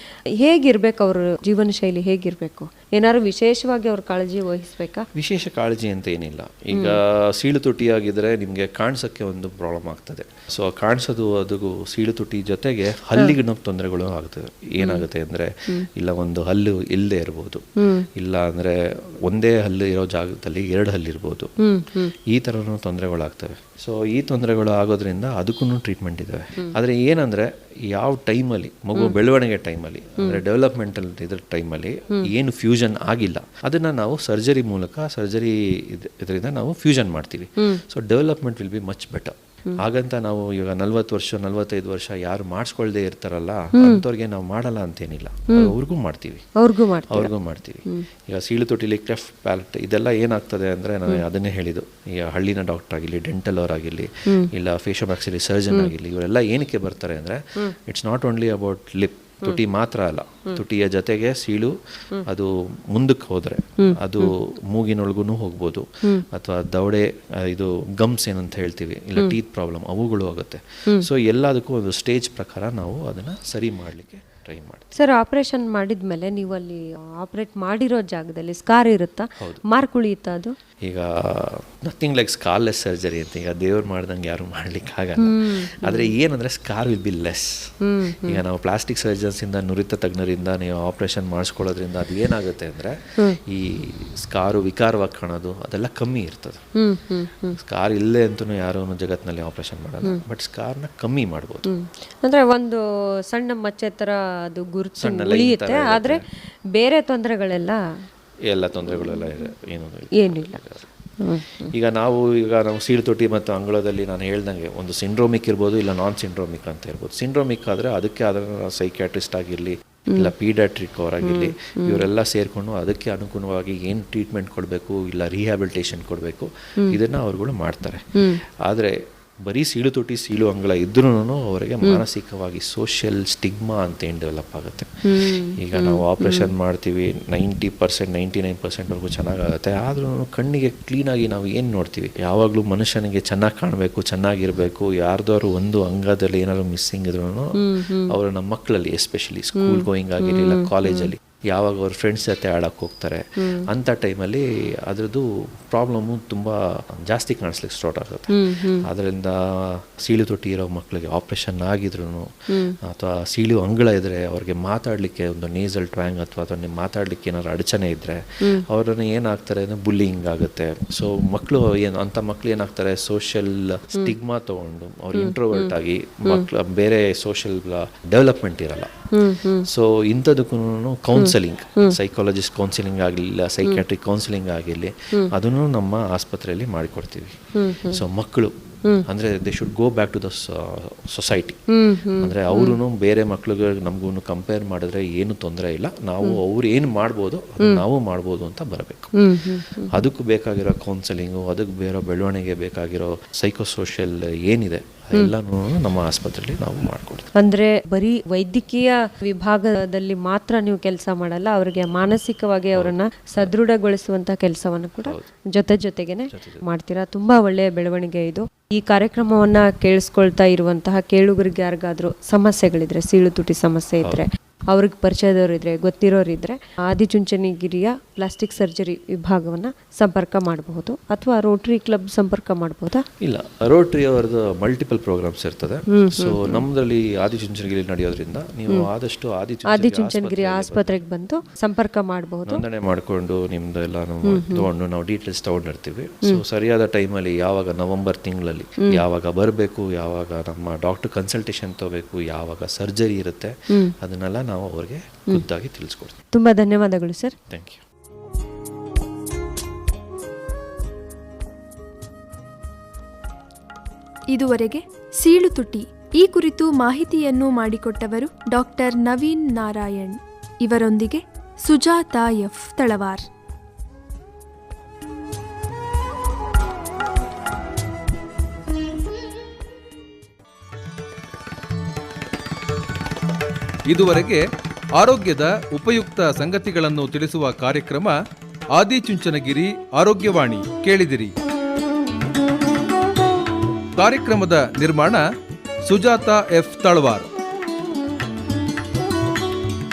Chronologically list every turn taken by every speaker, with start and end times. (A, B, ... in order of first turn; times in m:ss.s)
0:00.4-0:05.1 A
0:05.1-0:21.5 B
0:06.7-0:07.0 A
0:14.8-0:15.0 A
0:17.8-0:18.0 A
0:21.6-0:22.1 A
0:22.1-0:46.5 B
0:43.8-0:44.0 A
0:46.6-0:47.3 A
0:47.1-1:14.9 B
1:03.8-1:04.3 A
1:14.9-1:20.5 A
1:20.8-1:27.7 B
1:25.2-1:26.1 A
1:27.8-1:28.4 A
1:28.2-1:36.6 B
1:36.8-1:37.6 A
1:37.6-1:41.7 B
1:41.6-1:46.2 A
1:45.0-1:46.2 B
1:46.7-1:47.8 A
1:48.5-1:50.9 B
1:48.8-1:49.5 A
1:50.2-1:50.6 A
1:51.2-1:51.7 A
1:51.7-2:58.9 B
2:01.2-2:02.0 A
2:15.0-2:16.5 A
2:27.6-2:28.1 A
2:29.5-2:31.1 A
2:33.4-2:33.6 A
2:38.3-2:38.9 A
2:42.5-2:42.8 A
2:55.1-2:55.7 A
2:59.1-2:59.7 A
2:59.6-3:11.6 B
3:01.1-3:02.0 A
3:07.5-3:08.0 A
3:11.7-3:12.8 A
3:12.2-3:27.3 B
3:19.1-3:19.9 A
3:27.3-3:53.0 A
3:32.7-3:33.5 B
3:35.0-3:35.3 B
3:36.3-3:36.6 B
3:53.2-4:01.0 B
3:55.9-3:56.6 A
3:59.6-4:02.6 A
4:02.4-4:16.2 B
4:04.2-4:04.6 A
4:13.7-4:13.9 A
4:16.3-4:17.4 A
4:17.5-4:17.8 B
4:24.3-4:33.2 C
4:43.9-4:44.4 D
4:45.0-4:48.2 D
4:48.7-4:51.3 D
4:54.0-4:55.2 D
4:55.8-4:57.3 D